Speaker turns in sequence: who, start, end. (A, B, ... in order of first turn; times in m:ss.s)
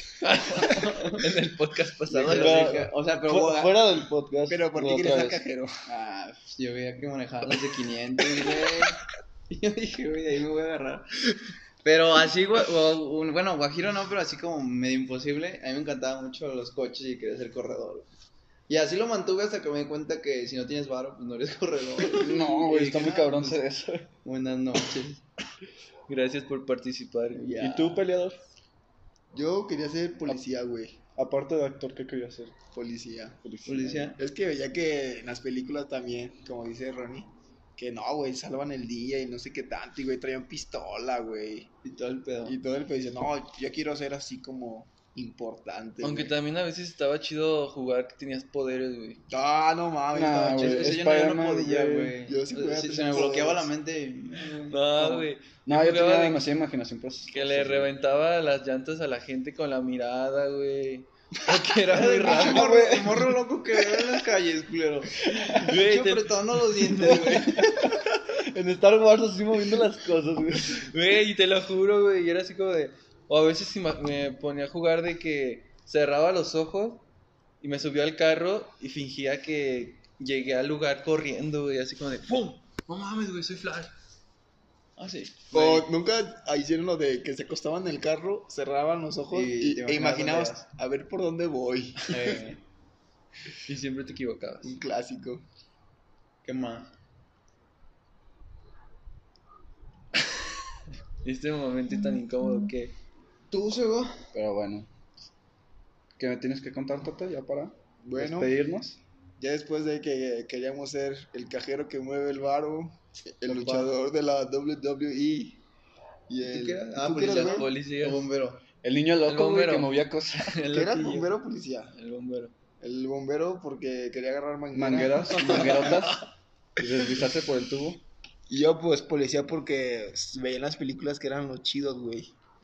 0:00.2-0:02.8 A
0:00.4-0:01.3 B
0:02.1-0:03.9 B
0:02.3-0:05.4 C
0:04.5-0:05.8 D
0:05.9-0:11.1 B
0:11.8-0:18.1 B
0:18.7-0:23.6 B
0:22.1-0:24.1 C
0:24.2-0:25.2 B
0:26.1-0:27.6 A
0:27.3-0:28.0 B
0:27.6-0:28.4 C
0:29.3-0:31.0 D
0:31.2-0:32.6 C
0:32.7-0:33.4 D
0:33.4-0:34.1 C
0:33.7-0:34.2 B
0:34.2-0:41.7 D
0:41.8-0:42.6 B
0:42.4-0:46.3 D
0:46.0-0:49.2 A
0:49.3-0:51.0 D
0:50.1-0:52.2 C
0:50.4-0:55.2 B
0:52.2-0:53.7 D
0:54.4-0:56.5 A
0:55.0-0:57.9 C
0:57.3-1:02.8 A
1:01.4-1:07.9 B
1:02.3-1:03.4 C
1:05.2-1:05.7 C
1:05.5-1:07.6 A
1:07.3-1:10.9 C
1:10.6-1:17.0 A
1:17.6-1:23.9 A
1:25.0-1:25.9 B
1:25.5-1:32.4 D
1:29.3-1:30.7 B
1:32.0-1:32.6 B
1:33.6-1:34.8 A
1:34.6-1:35.4 D
1:36.4-1:36.9 B
1:41.2-1:42.9 A
1:43.5-1:44.3 B
1:44.3-1:44.9 C
1:46.2-1:49.0 C
1:48.0-1:48.5 D
1:49.4-1:55.6 D
1:53.5-1:53.9 B
1:56.3-1:57.7 D
1:56.4-1:58.6 B
1:57.2-1:58.2 A
1:58.8-2:00.6 C
1:59.2-2:01.3 A
2:00.7-2:01.9 D
2:01.9-2:02.5 A
2:02.8-2:06.1 D
2:04.7-2:06.3 C
2:05.3-2:06.0 B
2:06.8-2:08.0 C
2:08.5-2:12.3 D